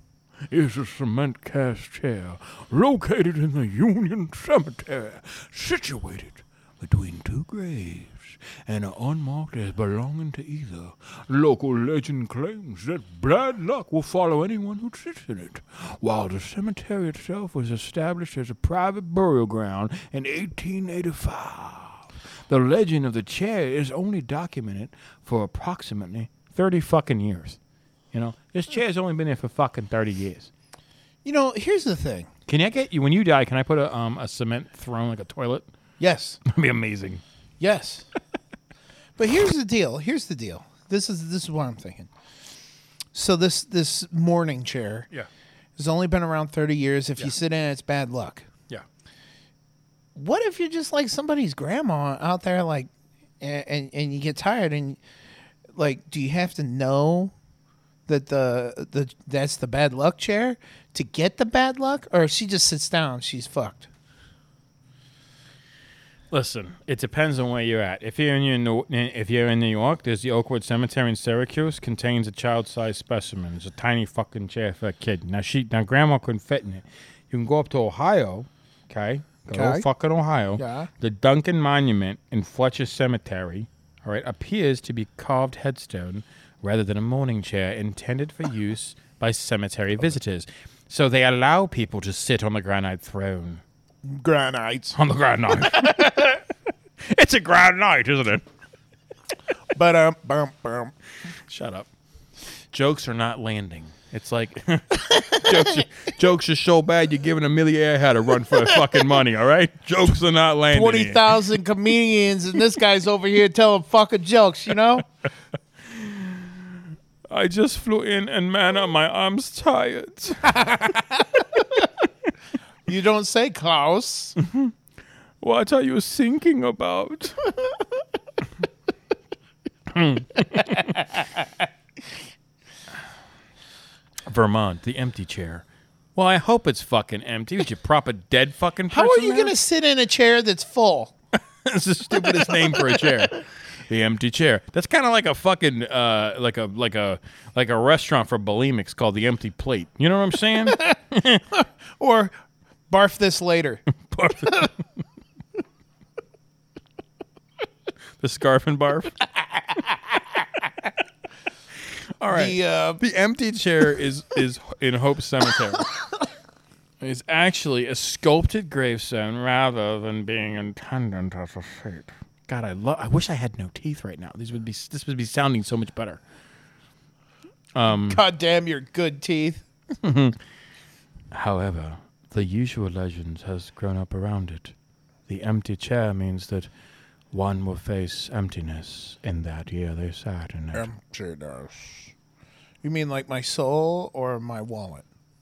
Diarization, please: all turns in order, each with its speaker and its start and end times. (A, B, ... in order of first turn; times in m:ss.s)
0:00.5-0:27.6 A
0:28.1-0:30.5 A
0:31.2-0:32.3 B
0:32.5-0:35.7 A
0:36.0-0:36.4 B
0:36.4-0:37.2 A
0:37.6-0:38.1 B
0:39.2-0:42.1 B
0:43.1-0:45.1 B
0:45.8-0:48.5 B
0:50.1-0:52.9 B
0:53.4-0:55.0 B
0:55.7-0:57.3 B
0:58.1-1:03.9 B
1:06.3-1:33.6 A
1:19.5-1:19.9 B
1:20.6-1:20.9 B
1:34.0-1:35.0 B
1:34.9-1:36.4 A
1:35.5-1:36.3 B
1:37.0-1:38.4 A
1:39.7-1:40.9 B
1:41.4-1:41.9 A
1:42.7-1:51.4 A
1:50.7-1:55.0 B
1:55.9-1:56.6 A
1:57.3-2:00.8 A
2:00.5-2:01.6 B
2:02.8-2:04.4 B
2:04.4-2:04.7 A
2:05.4-2:07.5 A
2:09.9-2:11.0 A
2:14.2-2:15.6 A
2:16.2-2:19.5 A
2:18.9-2:21.1 B
2:21.3-2:31.4 A
2:22.4-2:23.2 B
2:30.7-2:30.9 B
2:31.5-2:32.3 B
2:32.9-2:33.8 B
2:34.1-2:34.7 A
2:38.2-2:39.2 A
2:42.2-2:45.9 A
2:42.3-2:43.0 B
2:47.0-2:56.2 A
2:57.7-2:58.2 A
2:57.9-2:59.7 B
3:00.0-3:00.4 A
3:01.3-3:04.7 A
3:05.3-3:06.7 A
3:07.3-3:10.9 A
3:10.7-3:12.1 B
3:12.8-3:15.0 B